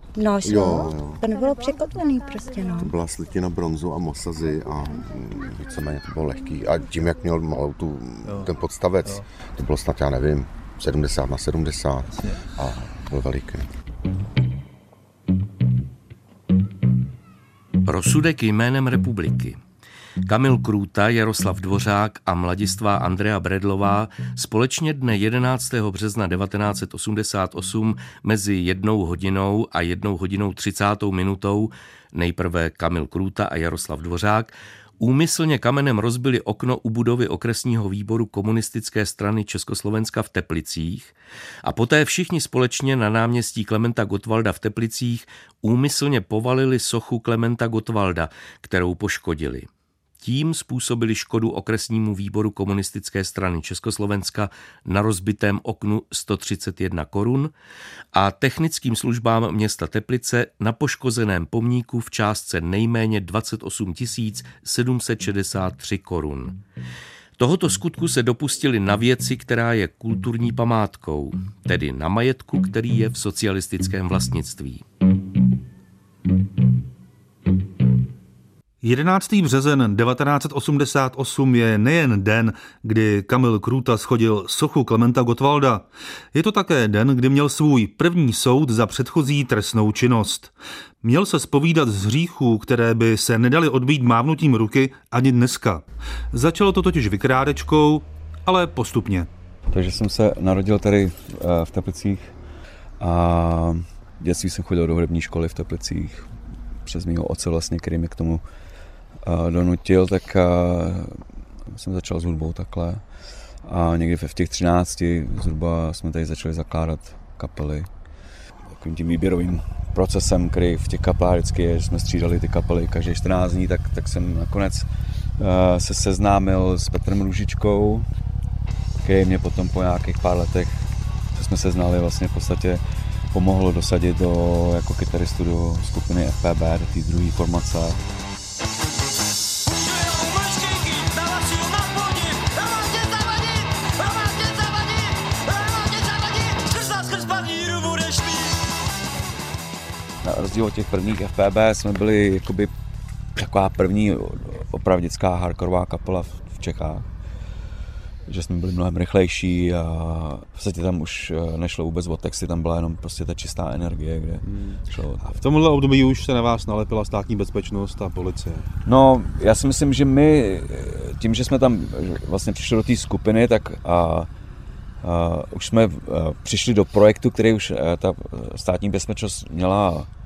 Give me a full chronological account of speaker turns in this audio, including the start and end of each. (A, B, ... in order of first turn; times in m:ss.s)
0:00.1-0:02.9 A
0:00.4-0:01.2 B
0:02.8-0:13.7 B
0:08.2-0:08.5 C
0:17.8-0:19.6 D
0:20.2-0:49.7 D
0:50.2-0:57.5 D
0:58.1-1:06.6 D
1:07.4-1:14.8 D
1:18.8-1:39.3 E
1:39.7-1:42.3 F
1:43.0-1:46.3 F
1:46.8-1:48.4 F
1:49.2-1:53.0 F
1:53.6-1:57.9 F
1:58.7-2:08.1 F
2:09.0-2:18.0 F
2:30.2-2:32.7 F
2:33.3-2:37.0 F
2:38.3-2:45.4 F
2:44.4-2:48.7 C
2:48.8-2:54.3 F
2:55.0-3:00.1 F